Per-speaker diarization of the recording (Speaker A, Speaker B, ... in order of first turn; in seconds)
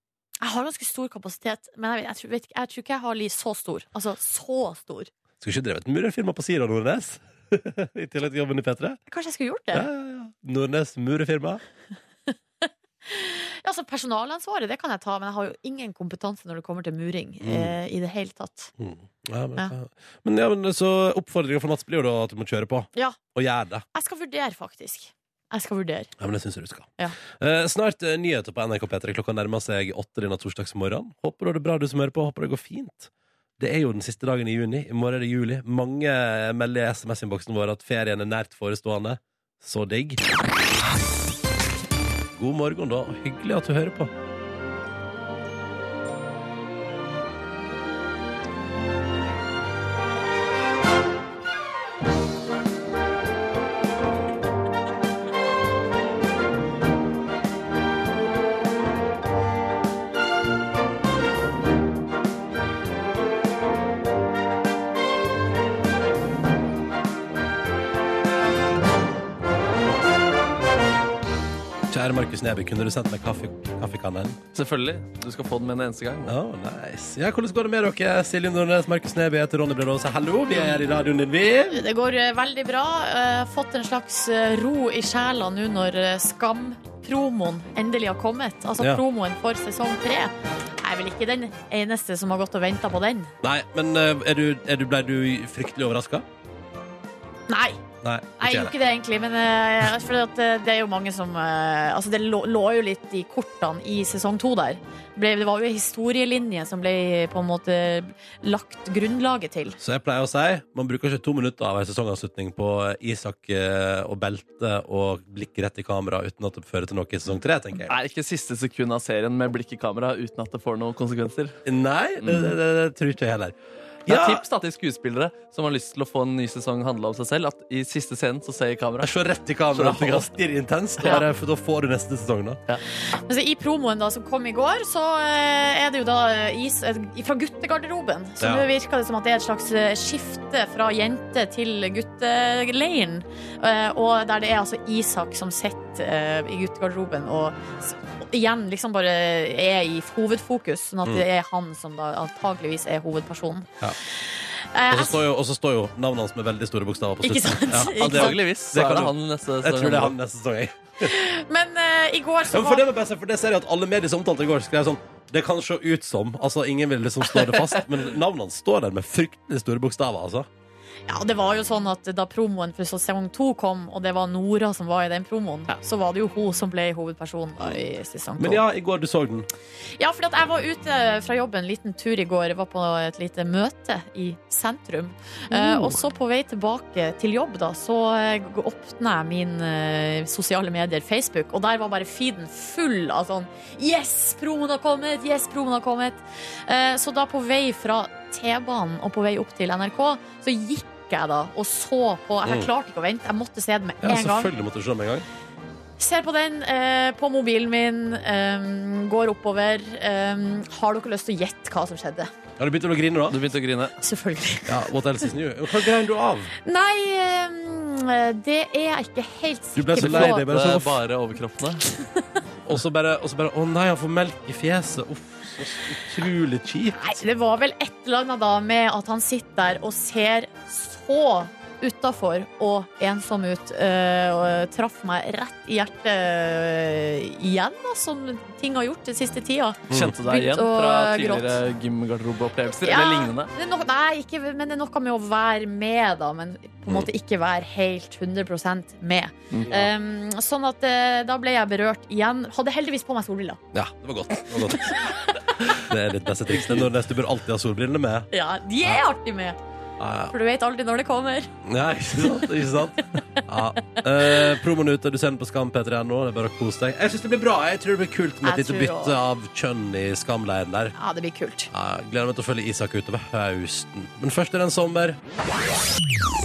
Speaker A: 0.4-5.1, 9.1-9.9, 12.3-18.7, 23.9-26.1, 81.7-93.3, 97.5-97.8, 98.4-109.8, 133.1-153.7, 154.2-155.2, 157.2-158.4, 161.0-162.8, 171.1-178.6, 180.0-204.5, 206.0-212.3, 214.0-214.9, 216.6-220.4, 227.0-241.6, 242.8-253.6, 254.8-255.4, 258.3-259.6, 260.3-261.5, 262.2-262.5, 268.4-269.2, 270.9-271.7
Speaker B: 5.4-9.0, 9.7-11.6, 17.4-17.7, 18.8-23.8, 26.2-40.2, 42.3-44.1, 71.9-74.4, 76.2-81.8, 93.4-96.2, 98.0-98.7, 109.8-118.0, 121.7-123.5, 124.0-124.4, 129.0-132.6, 138.4-138.7, 154.9-161.1, 162.5-170.5, 178.4-179.5, 185.5-185.9, 202.4-202.7, 204.0-205.2, 212.6-213.4, 214.7-216.5, 219.7-221.0, 222.7-227.0, 239.9-240.2, 249.6-249.9, 253.7-255.2, 255.7-258.3, 260.0-260.3, 261.6-270.9, 271.7-275.2
Speaker C: 74.5-76.3, 117.9-121.6, 122.2-122.5, 124.1-130.3, 131.0-131.2, 157.8-160.1, 213.3-213.9, 220.0-221.8, 239.9-243.5